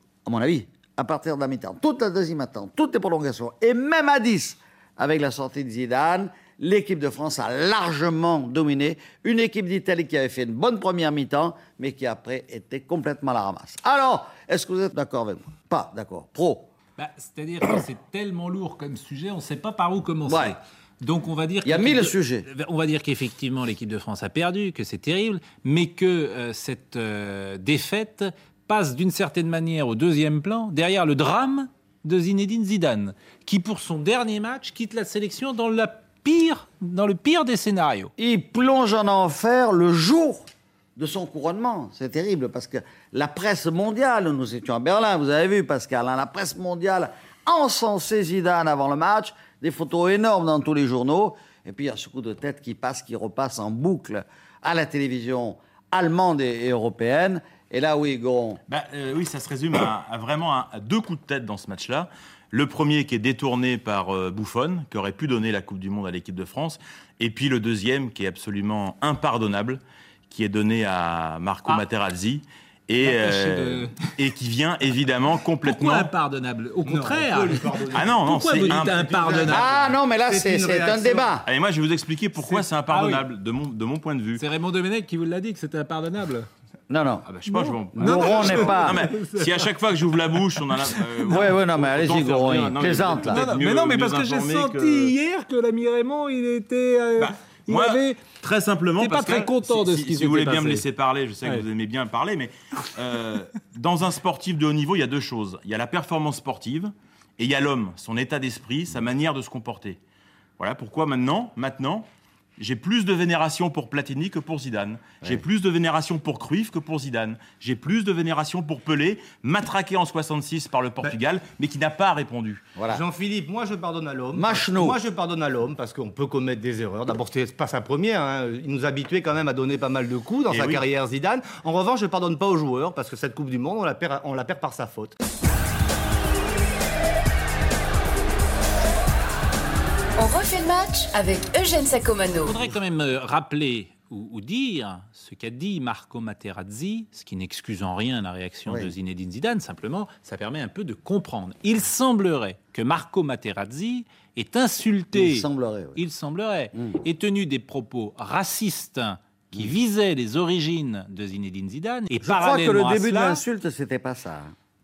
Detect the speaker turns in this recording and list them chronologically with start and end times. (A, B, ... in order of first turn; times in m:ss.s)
0:00.2-0:16.7 A
0:17.0-0:38.1 B
0:20.3-0:20.6 A
0:21.6-0:22.4 A
0:38.2-0:58.6 A
0:58.7-1:16.1 C
1:13.0-1:14.1 B
1:15.6-1:19.7 B
1:16.8-1:21.4 D
1:17.9-1:19.5 C
1:19.5-1:21.4 A
1:21.4-1:24.4 C
1:22.4-1:23.1 D
1:24.4-1:26.5 B
1:26.9-1:29.0 A
1:27.2-1:35.1 C
1:28.1-1:28.9 D
1:29.1-1:29.5 B
1:31.3-1:33.5 A
1:33.4-1:38.3 B
1:37.2-1:50.0 C
1:39.0-1:40.8 B
1:50.6-1:52.0 C
1:52.6-2:02.6 C
2:02.8-2:03.0 A
2:02.9-2:15.1 D
2:04.3-2:05.0 A
2:10.5-2:10.8 C
2:20.2-2:22.5 E
2:22.4-2:43.4 B
2:28.6-2:28.9 A
2:35.1-2:36.0 A
2:42.2-2:44.5 A